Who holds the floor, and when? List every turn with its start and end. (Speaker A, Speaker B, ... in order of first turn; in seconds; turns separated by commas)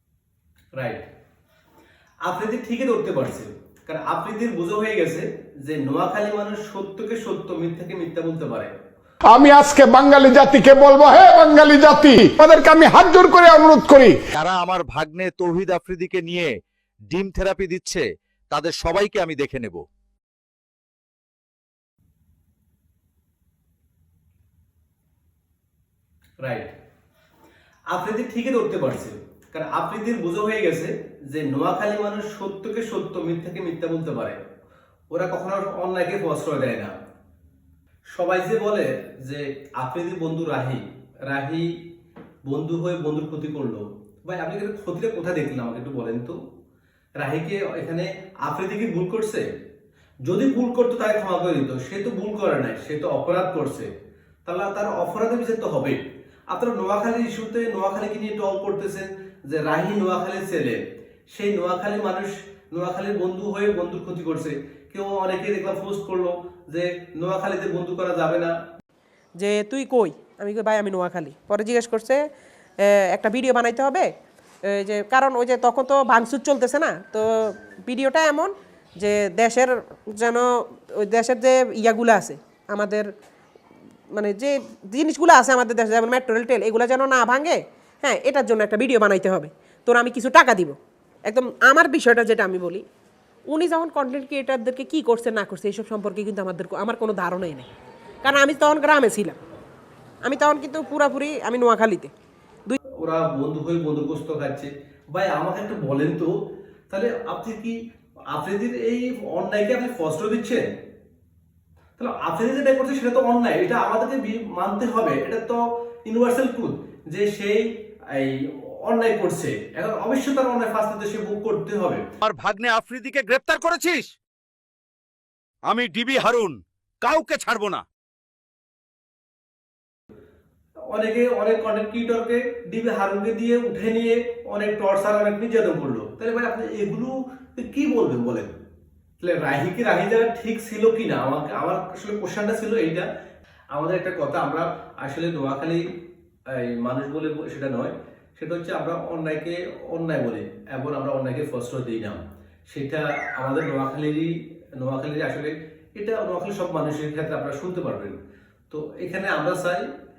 Speaker A: 0.8-1.0, Speaker A: 2.2-8.7, Speaker B: 9.3-14.2, Speaker C: 14.3-16.5, Speaker C: 17.1-19.8, Speaker A: 26.4-26.7, Speaker A: 27.9-34.4, Speaker A: 35.1-36.9, Speaker A: 38.1-41.7, Speaker A: 42.5-46.4, Speaker A: 47.2-49.5, Speaker A: 50.2-53.9, Speaker A: 54.5-56.0, Speaker A: 56.5-60.8, Speaker A: 61.3-68.5, Speaker D: 69.4-72.2, Speaker D: 72.8-74.1, Speaker D: 74.7-83.1, Speaker D: 84.1-92.8, Speaker D: 93.5-97.7, Speaker D: 98.2-99.4, Speaker D: 100.2-102.1, Speaker A: 103.0-106.3, Speaker A: 106.9-107.8, Speaker A: 108.3-110.6, Speaker A: 112.0-122.0, Speaker C: 122.2-124.1, Speaker C: 125.7-127.8, Speaker A: 130.9-138.5, Speaker A: 139.2-143.1, Speaker A: 143.7-145.8, Speaker A: 146.5-158.2, Speaker A: 158.7-159.8